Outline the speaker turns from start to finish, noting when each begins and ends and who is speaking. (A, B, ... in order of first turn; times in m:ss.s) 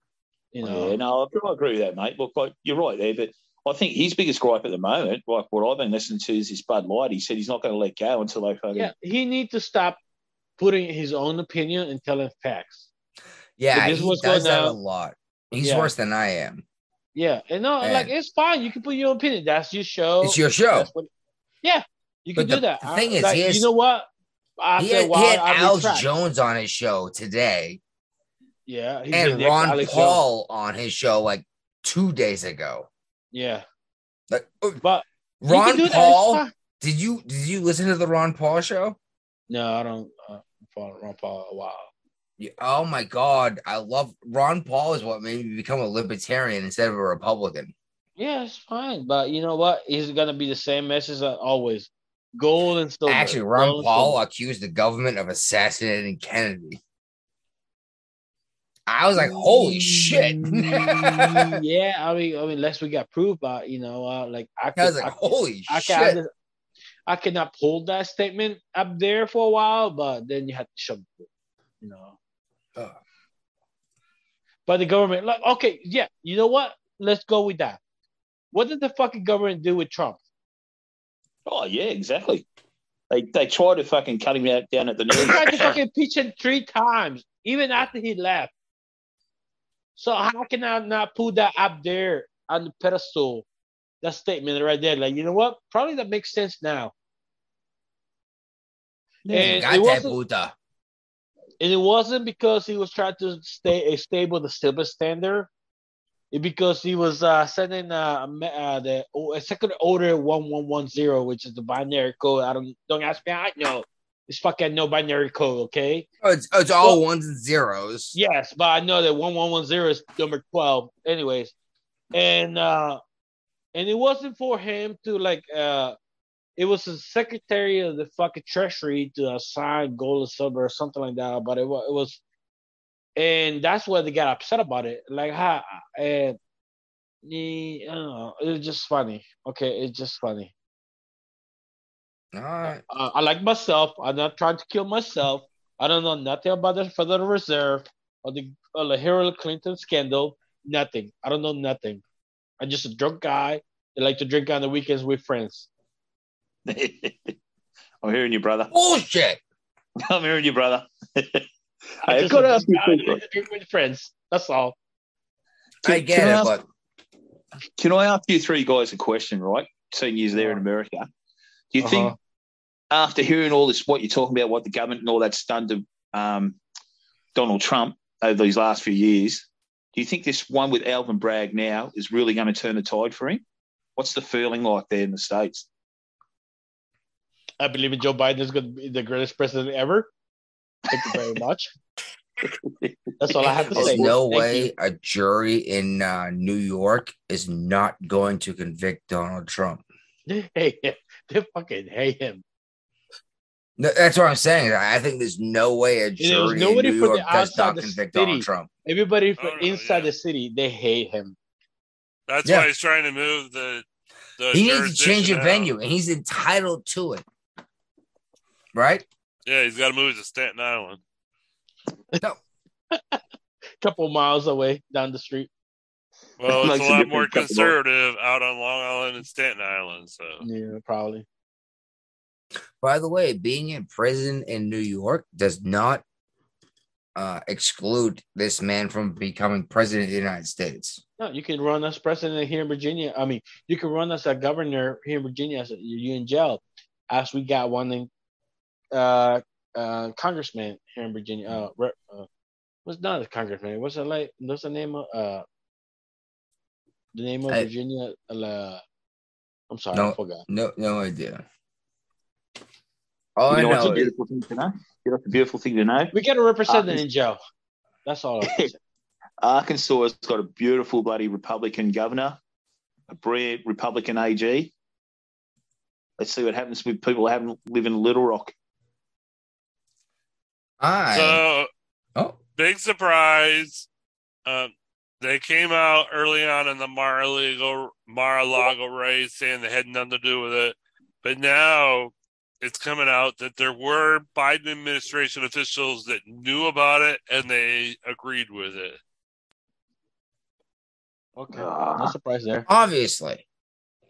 0:00.5-0:01.0 A
0:00.6-0:08.9 B
0:08.7-0:10.0 A
0:10.6-0:12.9 A
0:13.6-0:16.6 C
0:13.7-0:14.8 A
0:15.6-0:15.9 A
0:17.2-0:21.1 A
0:17.8-0:18.1 C
0:20.2-0:20.9 C
0:21.6-0:24.1 A
0:22.4-0:23.7 C
0:24.6-0:26.1 A
0:24.8-0:27.8 C
0:28.7-0:30.2 A
0:29.1-0:32.9 C
0:33.3-0:33.6 A
0:34.3-0:34.8 C
0:34.8-0:36.5 A
0:35.4-0:39.0 C
0:39.5-0:41.9 A
0:42.4-0:47.7 C
0:48.2-0:54.2 A
0:53.1-0:56.8 C
0:58.9-1:01.6 C
0:59.2-1:06.3 A
1:04.8-1:06.2 C
1:07.1-1:11.3 A
1:11.8-1:12.2 A
1:14.7-1:17.8 A
1:18.5-1:20.2 A
1:21.5-1:22.5 B
1:23.1-1:25.8 B
1:25.1-1:28.5 A
1:30.0-1:33.4 A
1:34.0-1:36.9 A
1:39.3-1:39.7 B
1:39.3-1:40.2 A
1:39.4-1:40.6 C
1:41.6-1:45.5 A
1:46.3-1:56.1 A
1:56.2-1:58.2 C
1:58.1-2:01.5 A
2:02.1-2:03.0 A
2:03.7-2:06.0 A
2:06.6-2:12.2 A
2:13.2-2:16.4 A
2:17.2-2:20.5 A
2:22.3-2:22.8 C
2:22.9-2:32.0 A
2:32.6-2:35.7 A
2:36.7-2:37.3 B
2:38.0-2:38.7 B
2:38.7-2:39.4 C
2:40.0-2:41.5 B
2:42.0-2:43.2 B
2:42.1-2:44.8 A
2:45.8-2:46.6 C
2:45.8-2:46.6 B
2:47.8-2:51.1 B
2:50.3-2:50.6 A
2:51.7-2:52.2 B
2:51.8-2:52.2 A
2:52.9-2:56.6 B
2:57.4-3:03.4 B
3:04.0-3:05.7 B
3:07.6-3:10.1 A
3:10.9-3:11.7 A
3:12.5-3:14.1 B
3:13.2-3:14.7 A
3:13.7-3:19.8 C
3:20.3-3:22.4 A
3:23.8-3:28.7 C
3:26.2-3:31.4 A
3:29.4-3:30.1 D
3:32.3-3:33.8 D
3:34.4-3:35.7 D
3:34.5-3:37.2 C
3:38.7-3:39.1 C
3:39.5-3:41.0 D
3:42.9-3:43.2 A
3:43.8-3:45.5 A
3:46.4-3:50.4 D
3:46.5-3:47.8 B
3:50.4-3:51.2 A
3:52.8-3:56.0 C
3:57.2-4:01.0 C
4:01.2-4:08.1 A
4:08.9-4:12.3 A
4:12.9-4:15.4 A
4:17.2-4:18.8 A
4:19.7-4:20.4 A
4:19.9-4:21.4 C
4:23.4-4:24.1 C
4:23.5-4:26.1 B
4:23.6-4:24.1 A
4:26.1-4:27.4 A
4:26.7-4:27.0 B
4:28.1-4:28.8 A
4:28.4-4:28.7 B
4:29.4-4:32.4 B
4:33.1-4:34.7 B
4:36.2-4:38.5 B
4:40.8-4:41.4 C
4:41.1-4:41.7 D
4:42.6-4:43.9 D
4:44.5-4:59.0 D
5:01.4-5:02.7 A
5:01.5-5:02.1 B
5:02.7-5:03.4 C